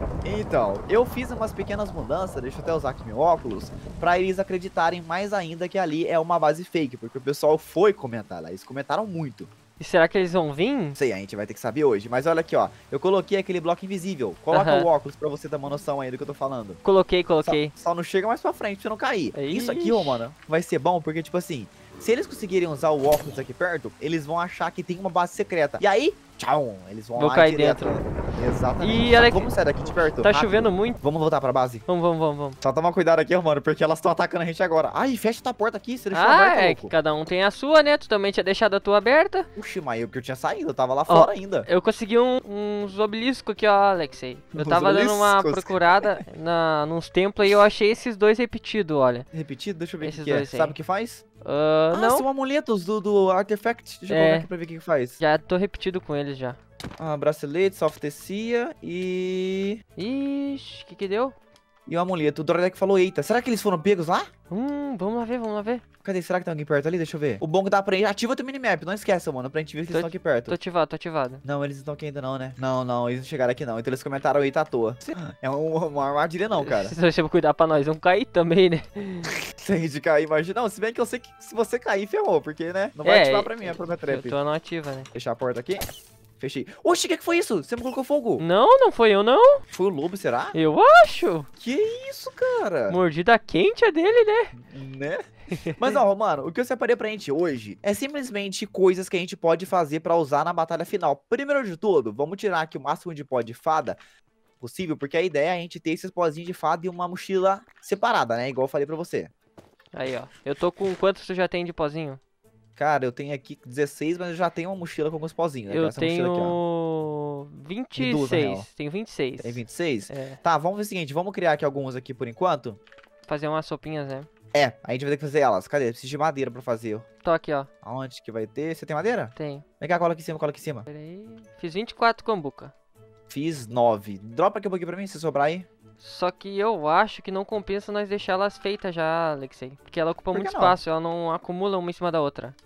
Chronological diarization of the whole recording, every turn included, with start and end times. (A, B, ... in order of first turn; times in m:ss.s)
0:00.2-0:09.5 A
0:09.8-0:11.0 B
0:11.0-0:16.8 A
0:14.5-0:14.9 B
0:16.8-0:17.7 B
0:17.4-0:31.8 A
0:19.3-0:20.2 B
0:27.2-0:28.0 B
0:28.8-0:29.5 B
0:30.1-0:31.0 B
0:31.9-0:32.6 B
0:32.6-0:36.9 A
0:36.1-0:39.5 B
0:39.6-0:41.7 A
0:41.1-0:49.2 B
0:44.6-0:46.2 A
0:49.3-0:51.2 A
0:50.0-0:50.8 B
0:51.4-0:52.2 B
0:51.9-0:55.2 A
0:54.1-0:54.5 B
0:55.2-0:56.6 B
0:57.0-0:59.8 A
1:00.0-1:01.3 B
1:01.9-1:04.3 A
1:04.5-1:05.8 B
1:06.0-1:10.6 A
1:09.9-1:11.4 B
1:11.4-1:17.0 A
1:16.5-1:19.3 B
1:19.5-1:24.4 A
1:23.0-1:25.1 B
1:25.1-1:25.9 A
1:26.4-1:28.4 A
1:28.4-1:29.6 B
1:29.7-1:30.6 A
1:30.5-1:31.5 B
1:31.6-1:33.0 A
1:32.9-1:34.6 B
1:34.6-1:44.0 A
1:44.6-1:49.3 A
1:49.9-1:52.2 B
1:52.8-1:56.6 A
1:55.7-2:00.4 B
1:58.0-1:58.7 A
1:59.4-2:02.8 A
2:03.2-2:04.3 B
2:04.5-2:07.0 A
2:07.2-2:07.7 B
2:07.8-2:10.9 A
2:09.4-2:09.6 B
2:10.9-2:12.7 B
2:13.3-2:15.7 A
2:16.0-2:22.5 B
2:20.3-2:20.8 A